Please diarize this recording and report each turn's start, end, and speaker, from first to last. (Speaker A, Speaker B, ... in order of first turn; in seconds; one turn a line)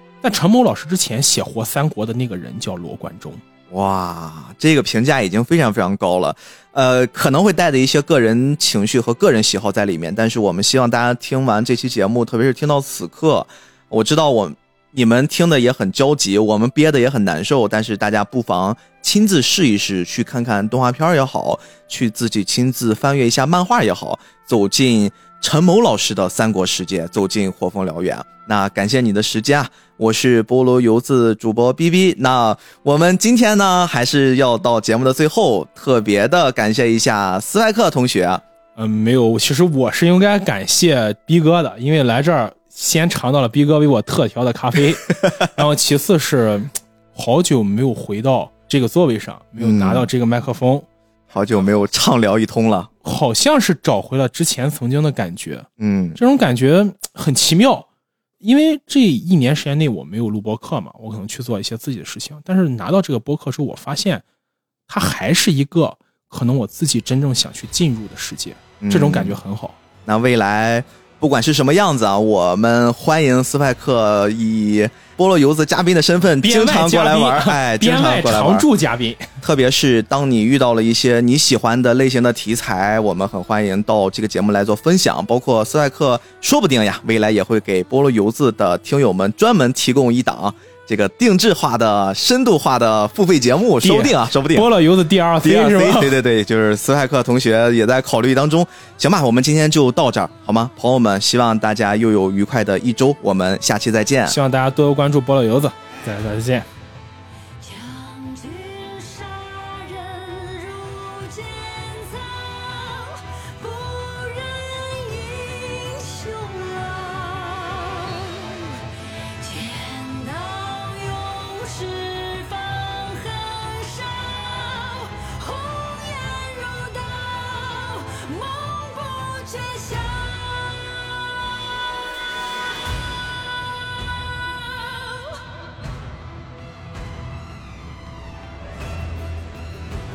Speaker A: 0.2-3.4
Speaker B: 3.7-38.4
Speaker A: 38.8-50.9
Speaker B: 49.6-50.1
Speaker B: 51.3-52.9
Speaker A: 53.0-57.9
Speaker B: 55.8-56.2
Speaker A: 58.4-64.2
Speaker A: 64.9-69.8
Speaker B: 68.8-69.4
Speaker B: 70.0-78.7
Speaker A: 76.4-79.3
Speaker B: 79.4-94.7
Speaker A: 93.8-96.2
Speaker B: 95.4-104.4
Speaker A: 104.3-106.7
Speaker C: 107.6-132.5
Speaker C: 134.3-135.5